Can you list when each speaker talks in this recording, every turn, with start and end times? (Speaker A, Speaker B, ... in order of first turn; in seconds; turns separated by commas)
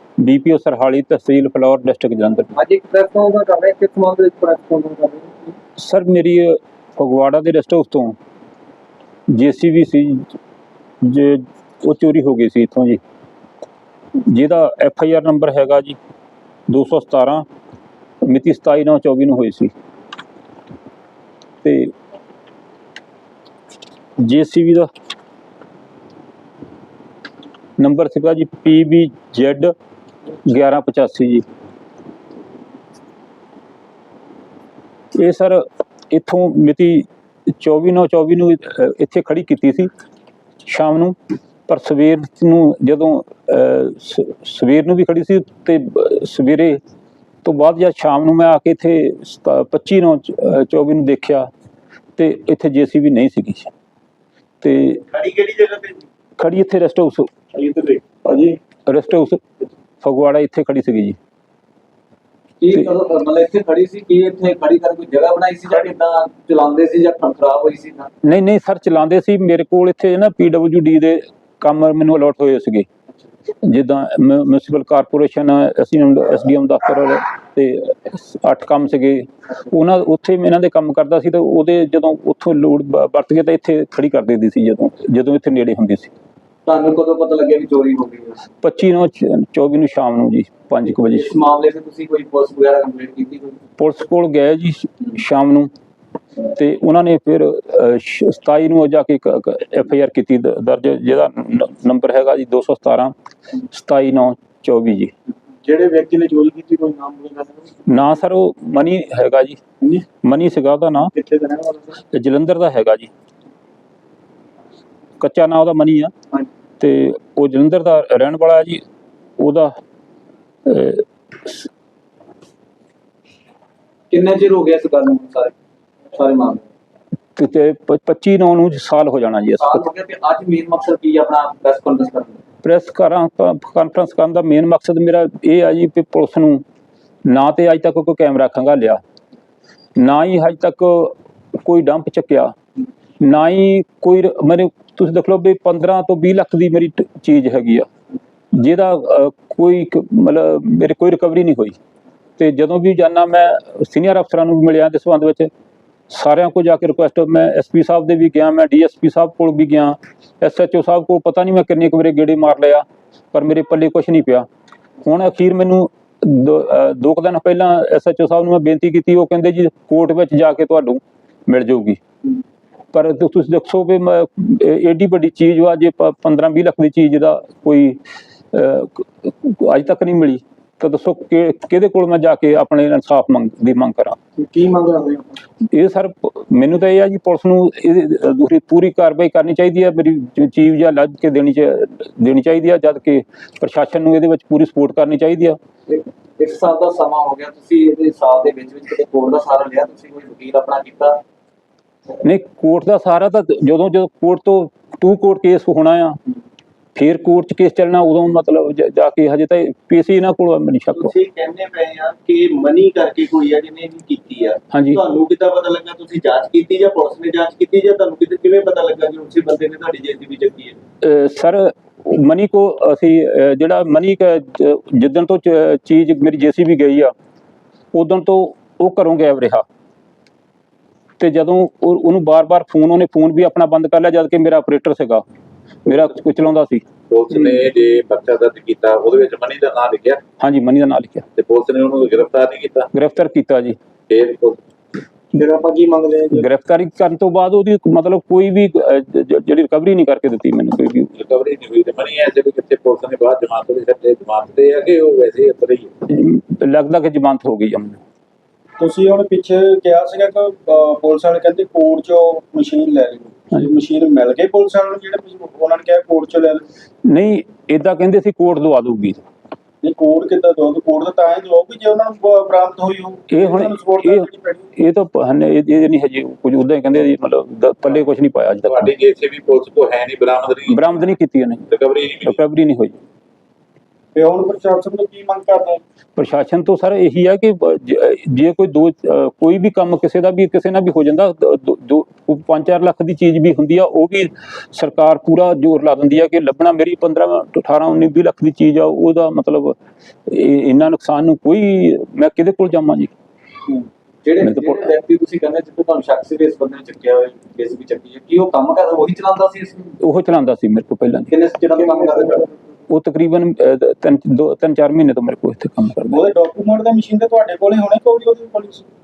Speaker A: 0.2-2.5, Speaker B: 2.5-5.6, Speaker A: 5.8-8.2, Speaker A: 9.3-10.3, Speaker A: 11.0-13.0, Speaker A: 14.2-16.0, Speaker A: 16.7-17.4, Speaker A: 18.2-19.7, Speaker A: 21.6-21.9, Speaker A: 24.2-24.9, Speaker A: 27.8-29.7, Speaker A: 30.5-31.4, Speaker A: 35.1-39.9, Speaker A: 40.7-41.2, Speaker A: 41.7-46.8, Speaker A: 47.5-51.5, Speaker A: 52.2-53.7, Speaker A: 54.6-55.0, Speaker C: 55.2-56.0, Speaker A: 56.4-57.3, Speaker B: 57.6-58.6, Speaker A: 58.9-59.4, Speaker A: 60.0-61.2, Speaker D: 62.6-68.1, Speaker A: 68.2-72.9, Speaker A: 73.6-86.1, Speaker D: 86.7-88.5, Speaker A: 88.6-91.3, Speaker D: 91.1-93.6, Speaker A: 93.8-95.7, Speaker A: 96.5-103.1, Speaker A: 103.7-105.1, Speaker B: 105.6-107.7, Speaker A: 107.9-109.6, Speaker A: 110.2-111.1, Speaker B: 111.1-112.0, Speaker A: 112.1-113.1, Speaker A: 115.2-116.1, Speaker A: 116.8-118.8, Speaker A: 119.4-119.7, Speaker A: 120.7-121.7, Speaker D: 124.1-125.5, Speaker D: 126.1-126.7, Speaker A: 127.4-129.9, Speaker D: 129.6-132.4, Speaker A: 132.6-136.6, Speaker A: 137.3-139.0, Speaker A: 140.0-142.5, Speaker A: 143.2-147.9, Speaker A: 148.6-151.8, Speaker A: 152.4-155.5, Speaker A: 156.1-164.5, Speaker A: 165.0-172.0, Speaker A: 172.9-178.0, Speaker A: 178.5-184.2, Speaker B: 184.4-185.4, Speaker A: 185.6-195.6, Speaker D: 195.9-201.2, Speaker A: 202.2-206.2, Speaker A: 207.0-211.1, Speaker C: 211.2-214.6, Speaker A: 214.7-215.0, Speaker D: 214.9-216.1, Speaker C: 215.2-220.7, Speaker D: 216.9-218.1, Speaker A: 221.0-227.1, Speaker A: 227.9-229.6, Speaker A: 231.2-235.2, Speaker A: 235.8-236.9, Speaker E: 237.1-240.2, Speaker A: 240.4-241.3, Speaker E: 241.4-242.9, Speaker A: 242.9-243.8, Speaker E: 244.1-244.6, Speaker B: 245.3-246.4, Speaker A: 246.3-251.1, Speaker E: 251.2-255.9, Speaker A: 256.1-258.0, Speaker F: 258.8-266.7, Speaker A: 267.1-269.2, Speaker F: 269.8-274.7, Speaker A: 273.3-278.9, Speaker E: 278.7-280.9, Speaker A: 280.7-281.7, Speaker E: 281.7-282.4, Speaker A: 282.2-283.0, Speaker F: 284.1-285.8, Speaker A: 286.2-303.1, Speaker D: 303.7-309.9, Speaker A: 304.4-304.8, Speaker A: 310.0-311.3, Speaker D: 311.3-312.5, Speaker B: 311.8-312.4, Speaker A: 312.9-316.2, Speaker F: 316.1-318.9